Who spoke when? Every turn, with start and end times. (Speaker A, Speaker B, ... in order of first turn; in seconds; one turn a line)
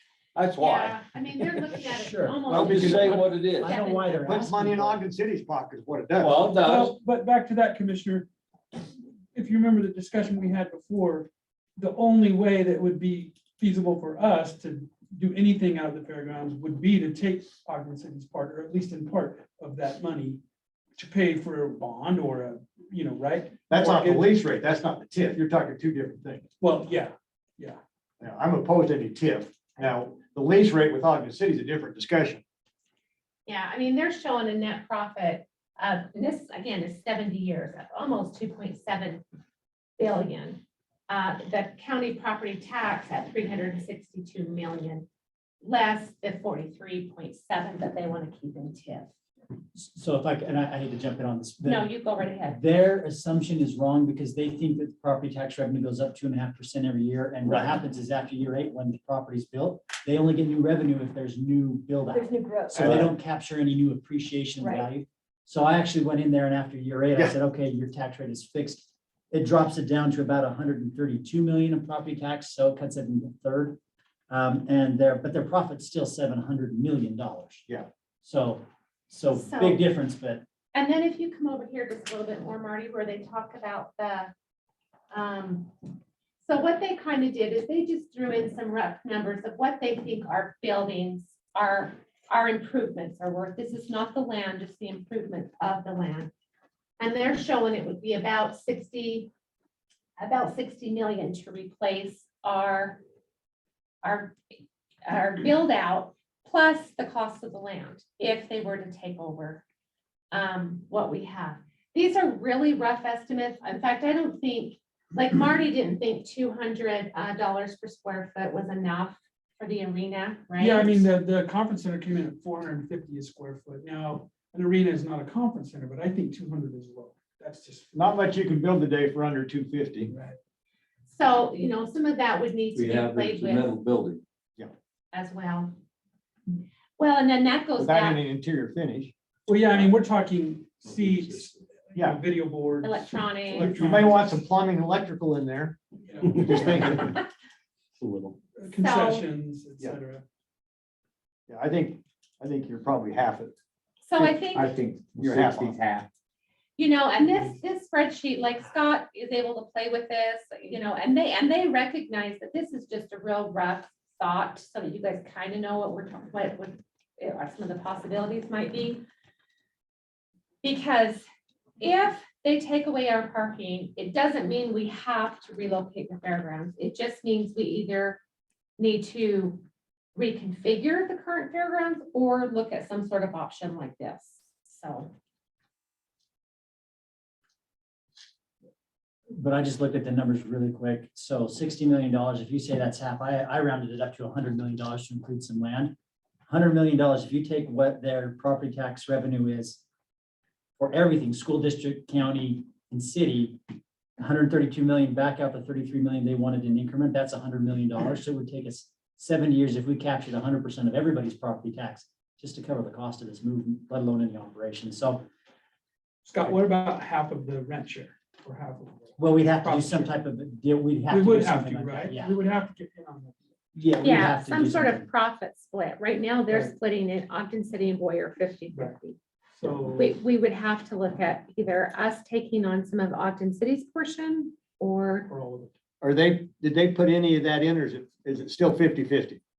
Speaker A: 0.3-1.8
Speaker B: 0.6-4.3
Speaker C: 1.9-5.0
Speaker A: 2.5-3.8
Speaker D: 2.5-3.1
Speaker D: 4.2-6.5
Speaker A: 6.2-7.0
Speaker E: 6.6-20.4
Speaker E: 21.0-24.3
Speaker D: 23.7-26.5
Speaker E: 26.6-27.8
Speaker D: 28.2-32.4
Speaker B: 33.5-39.2
Speaker B: 40.0-45.1
Speaker B: 45.6-49.1
Speaker C: 49.8-51.9
Speaker B: 51.6-52.6
Speaker C: 52.4-73.8
Speaker D: 62.7-63.1
Speaker C: 74.3-77.7
Speaker C: 78.2-80.4
Speaker B: 79.3-79.8
Speaker B: 80.7-84.3
Speaker B: 85.1-85.9
Speaker B: 86.4-96.3
Speaker B: 97.0-99.3
Speaker B: 100.2-103.0
Speaker B: 104.0-104.4
Speaker B: 105.1-109.6
Speaker B: 110.3-121.0
Speaker E: 120.6-127.9
Speaker D: 127.9-130.1
Speaker E: 130.1-130.4
Speaker B: 131.1-133.7
Speaker A: 132.8-134.2
Speaker B: 135.1-135.7
Speaker B: 137.0-138.2
Speaker D: 137.8-139.1
Speaker E: 139.5-144.4
Speaker B: 142.8-144.0
Speaker D: 143.7-147.2
Speaker E: 146.1-146.8
Speaker A: 148.0-148.3
Speaker E: 148.6-150.2
Speaker B: 148.8-149.3
Speaker D: 151.5-153.6
Speaker B: 154.0-154.7
Speaker D: 154.2-156.1
Speaker A: 155.2-155.8
Speaker B: 156.8-169.0
Speaker B: 170.6-171.3
Speaker B: 171.8-178.2
Speaker B: 178.8-179.6
Speaker B: 180.2-185.1
Speaker C: 189.3-195.9
Speaker C: 196.5-199.8
Speaker C: 200.8-203.6
Speaker C: 204.2-215.2
Speaker E: 216.2-220.1
Speaker C: 219.2-222.4
Speaker E: 221.1-223.4
Speaker C: 223.8-225.1
Speaker B: 224.0-229.2
Speaker E: 226.5-226.7
Speaker E: 228.7-229.0
Speaker E: 229.6-230.1
Speaker B: 230.0-235.3
Speaker E: 235.3-235.7
Speaker D: 236.0-239.4